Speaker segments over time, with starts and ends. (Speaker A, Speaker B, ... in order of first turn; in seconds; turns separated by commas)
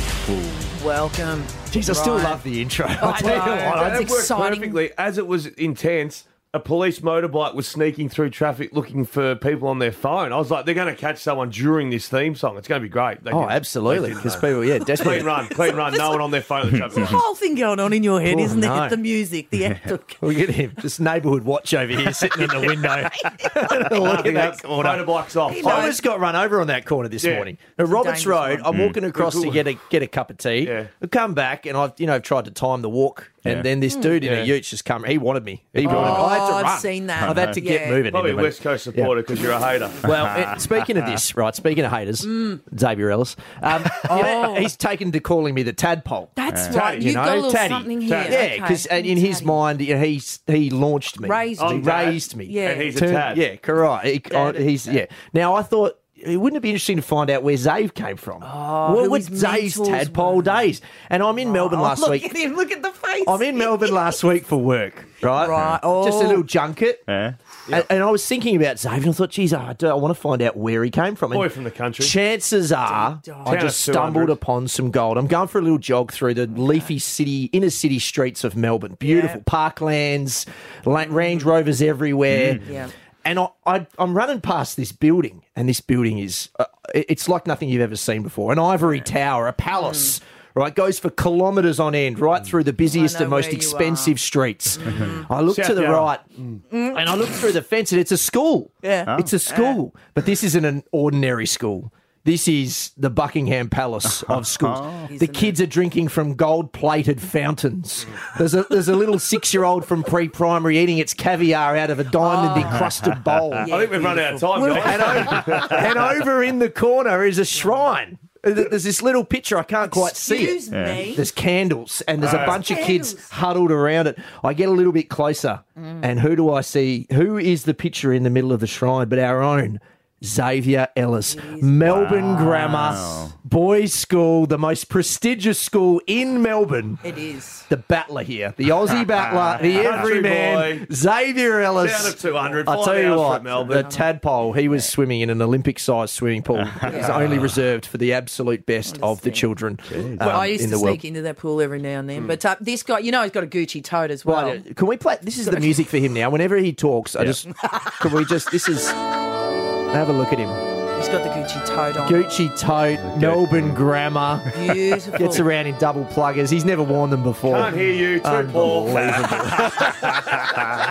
Speaker A: 0.3-2.4, Speaker B: 1.7-4.1, Speaker A: 3.0-4.8, Speaker C: 3.2-17.2, Speaker B: 13.3-15.3, Speaker A: 15.2-16.3, Speaker A: 16.9-20.3, Speaker B: 18.2-19.0, Speaker B: 20.2-39.1, Speaker A: 22.2-24.0, Speaker C: 23.9-26.0, Speaker A: 25.5-26.0, Speaker C: 27.2-27.5, Speaker A: 27.8-28.7, Speaker D: 28.7-29.0, Speaker C: 29.1-29.7, Speaker C: 30.6-30.9, Speaker C: 34.2-34.5, Speaker C: 35.7-36.3, Speaker A: 35.8-38.0, Speaker D: 37.2-37.5, Speaker C: 38.1-40.0, Speaker B: 40.0-62.3, Speaker A: 44.0-44.7, Speaker A: 46.4-49.6, Speaker D: 46.5-46.8, Speaker C: 46.7-47.1, Speaker C: 48.0-48.4, Speaker A: 51.2-53.0, Speaker C: 51.6-53.4, Speaker A: 54.3-54.7, Speaker A: 58.4-60.7, Speaker A: 61.4-64.1, Speaker B: 63.2-67.0, Speaker A: 65.2-66.5, Speaker D: 67.1-67.3, Speaker B: 67.7-96.2, Speaker C: 71.3-72.2, Speaker A: 72.8-73.6, Speaker C: 73.4-74.4, Speaker A: 79.0-79.4, Speaker D: 82.3-82.6, Speaker A: 82.6-82.9, Speaker A: 89.8-90.1, Speaker A: 92.9-94.2, Speaker A: 94.8-95.3, Speaker C: 95.5-96.6, Speaker A: 96.7-97.2, Speaker B: 96.9-113.7, Speaker A: 98.8-99.8, Speaker D: 104.2-105.0, Speaker A: 105.0-105.6, Speaker A: 112.2-112.9, Speaker A: 113.6-115.6, Speaker C: 113.7-116.1, Speaker B: 114.7-137.0, Speaker A: 119.8-121.2, Speaker D: 120.7-121.0, Speaker C: 122.2-122.6, Speaker A: 122.5-123.3, Speaker A: 125.8-126.1, Speaker A: 131.3-132.6, Speaker D: 131.9-133.3, Speaker A: 137.0-137.7, Speaker B: 137.7-151.0, Speaker C: 139.7-140.9, Speaker C: 141.8-143.9, Speaker A: 143.7-144.9, Speaker A: 146.8-147.2, Speaker D: 147.0-147.5, Speaker A: 148.8-149.5, Speaker D: 149.9-150.4, Speaker A: 150.1-154.6, Speaker B: 154.2-158.9, Speaker B: 159.9-160.6, Speaker A: 160.9-162.3, Speaker B: 162.0-164.5, Speaker C: 163.0-163.7, Speaker A: 164.5-165.4, Speaker B: 165.1-170.6, Speaker C: 167.4-170.6